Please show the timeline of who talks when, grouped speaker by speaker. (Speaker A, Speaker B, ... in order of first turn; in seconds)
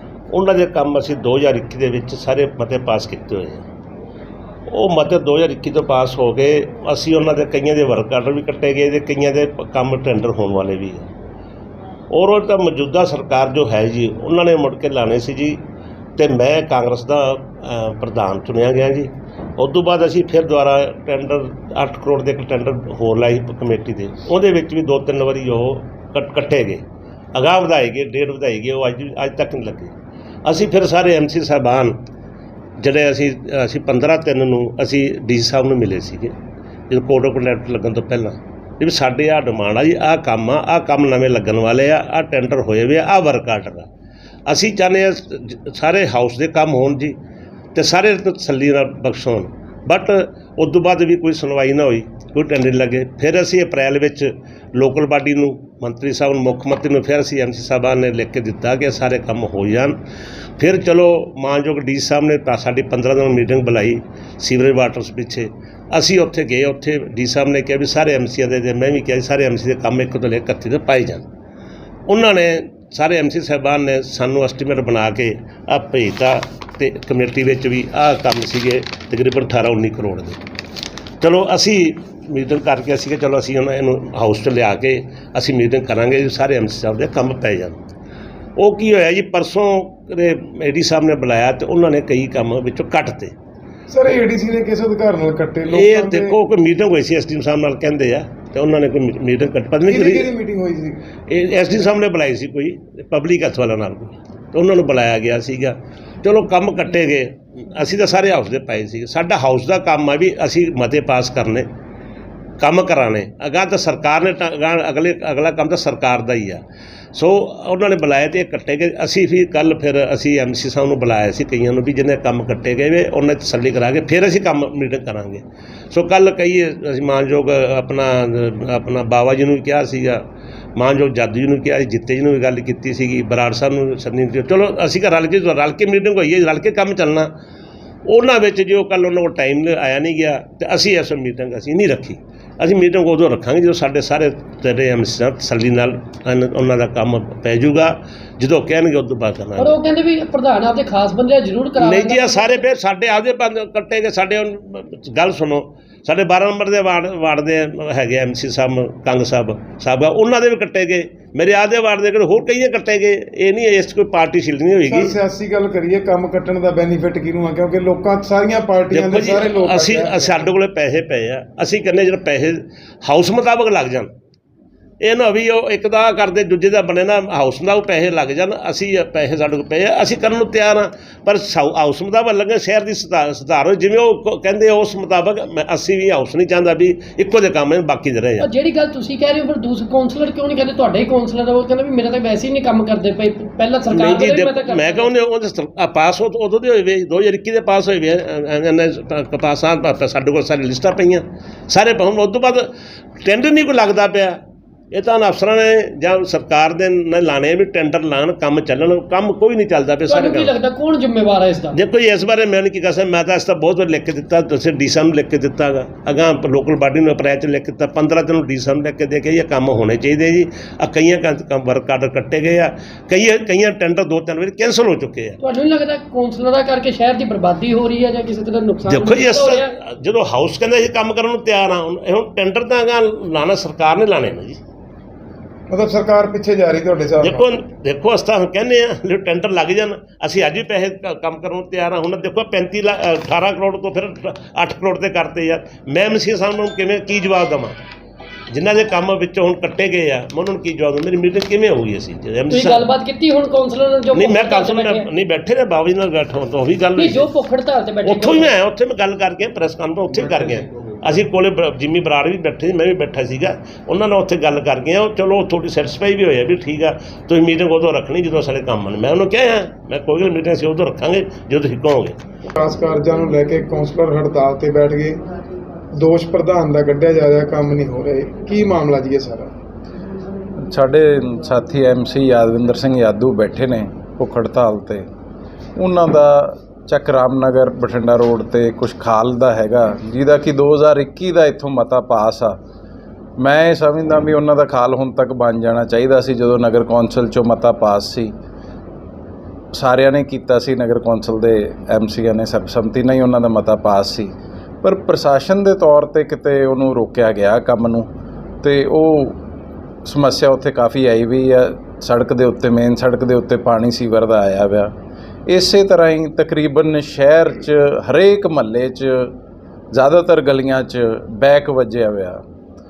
Speaker A: 0.3-3.7, 4.7-11.1, 12.1-15.6, 16.2-29.9, 30.4-32.0, 32.8-36.4, 36.9-43.9, 44.5-47.2, 47.7-60.0, 60.6-71.3, 72.1-80.4, 81.2-87.8, 88.6-93.3, 95.7-100.3, 101.3-111.7, 112.6-116.6, 117.1-130.2, 130.8-137.3, 138.1-149.8, 151.8-165.1, 168.9-174.1, 175.0-188.5, 193.9-202.7, 203.2-204.4, 204.9-210.5, 211.7-225.4, 228.8-234.6, 237.2-247.8, 248.5-252.9, 254.1-257.3, 258.0-272.2
Speaker B: 93.9-96.4, 99.9-101.0, 164.8-170.5, 235.7-237.6, 272.5-275.2, 275.9-279.5
Speaker C: 149.6-152.6, 188.4-195.1, 210.1-211.8, 225.4-229.7, 252.5-255.1, 256.9-258.5
Speaker D: 280.6-285.1, 285.8-292.6, 293.4-298.3, 299.7-308.1, 308.6-309.4, 310.0-314.9, 315.5-319.3, 319.9-322.4